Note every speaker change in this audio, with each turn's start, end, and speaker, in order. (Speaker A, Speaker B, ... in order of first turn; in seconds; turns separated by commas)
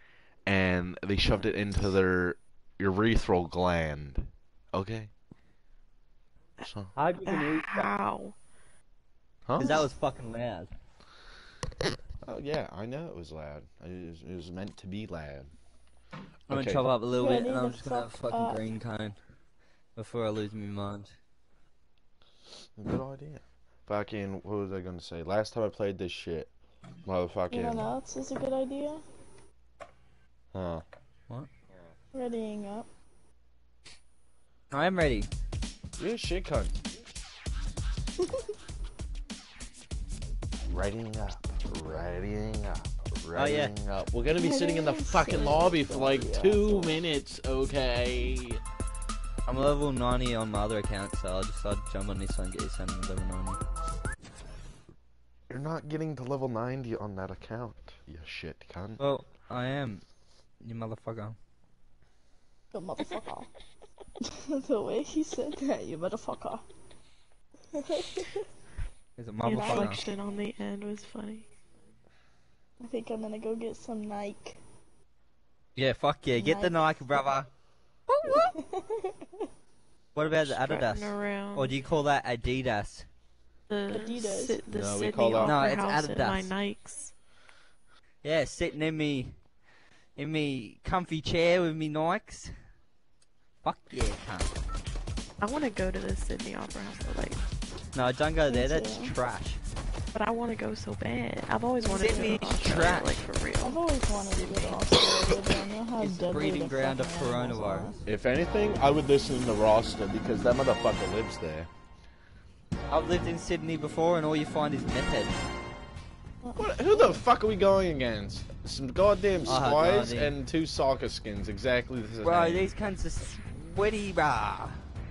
Speaker A: 0.5-5.1, Speaker A: 6.6-6.9, Speaker B: 7.0-7.9, Speaker C: 7.3-8.3, Speaker A: 9.4-9.8, Speaker B: 9.6-10.7, Speaker A: 12.2-15.5, Speaker A: 16.5-16.9, Speaker B: 16.5-19.2, Speaker D: 17.1-18.6, Speaker B: 19.9-21.1, Speaker A: 22.8-26.5, Speaker A: 27.0-27.9, Speaker D: 27.5-29.0, Speaker A: 30.5-30.8, Speaker D: 32.1-32.9, Speaker B: 34.7-35.3, Speaker A: 36.0-36.8, Speaker A: 40.7-48.6, Speaker B: 43.3-43.7, Speaker D: 44.4-47.0, Speaker B: 49.5-53.6, Speaker A: 55.5-59.0, Speaker B: 59.0-60.0, Speaker B: 60.6-61.4, Speaker D: 62.7-63.5, Speaker D: 64.2-66.6, Speaker D: 67.7-68.5, Speaker B: 69.2-70.0, Speaker D: 69.5-70.0, Speaker C: 69.5-71.5, Speaker D: 72.8-74.6, Speaker B: 75.8-77.5, Speaker D: 76.3-76.7, Speaker D: 78.2-79.5, Speaker B: 80.1-83.1, Speaker C: 80.4-81.7, Speaker C: 83.7-87.1, Speaker D: 83.9-84.6, Speaker A: 84.7-85.6, Speaker B: 85.4-86.5, Speaker B: 88.2-89.4, Speaker B: 90.2-92.6, Speaker B: 93.6-94.5, Speaker C: 95.4-97.4, Speaker B: 97.9-99.6, Speaker D: 98.5-99.1, Speaker C: 100.1-103.8, Speaker D: 101.8-102.7, Speaker B: 101.9-103.2, Speaker D: 103.6-107.9, Speaker C: 104.4-104.8, Speaker B: 106.0-108.0, Speaker A: 108.0-111.7, Speaker B: 112.9-115.5, Speaker D: 116.4-117.2, Speaker A: 116.5-122.7, Speaker B: 119.4-120.3, Speaker B: 122.2-124.8